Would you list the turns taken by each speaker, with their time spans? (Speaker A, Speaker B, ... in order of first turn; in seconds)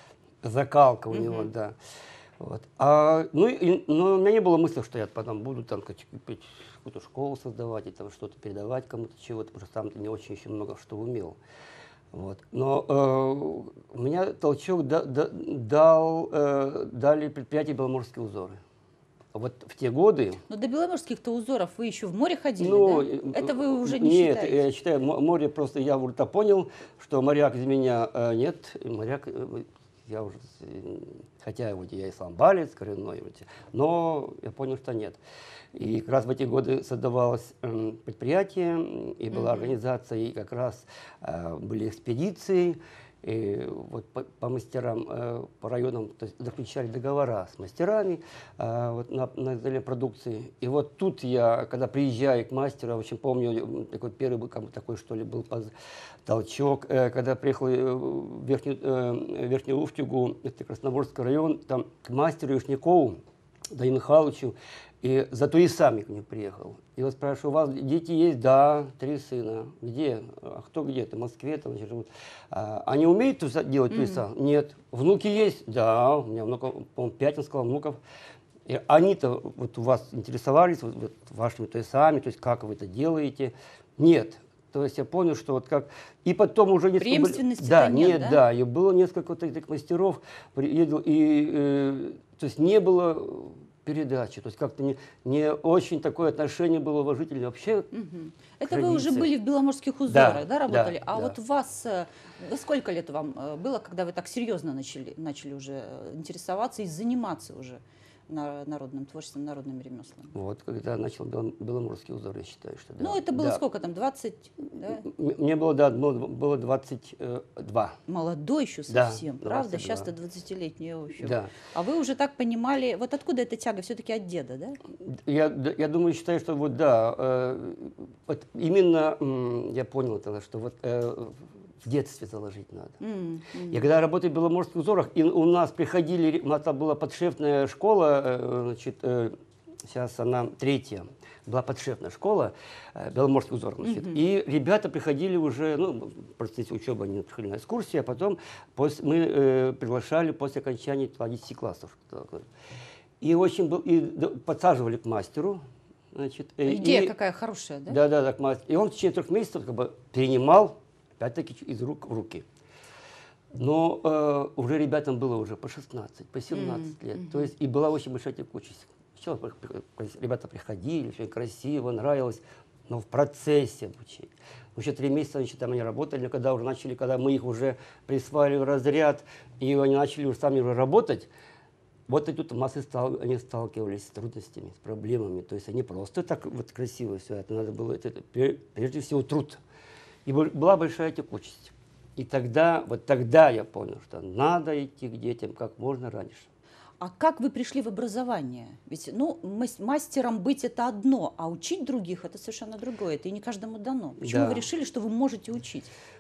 Speaker A: 0.4-1.8, 2.4-11.4, 12.1-18.6, 19.3-20.4, 22.6-35.2, 35.7-55.7, 56.3-63.2, 63.7-78.0, 78.7-97.9, 98.7-99.3, 100.1-101.4, 110.3-113.6, 114.7-118.0, 118.9-120.1, 121.2-121.5, 125.1-133.0, 133.7-152.5, 153.2-157.1, 157.9-162.4, 163.6-181.3, 182.1-189.6, 190.3-196.5, 204.2-204.6
Speaker B: 1.1-1.5, 20.5-24.6, 39.3-39.8, 73.9-74.2, 87.0-88.4, 97.9-110.3, 113.0-115.0, 118.1-124.8, 133.0-133.8, 143.8-144.2, 156.7-158.0, 166.5-167.5, 197.0-205.9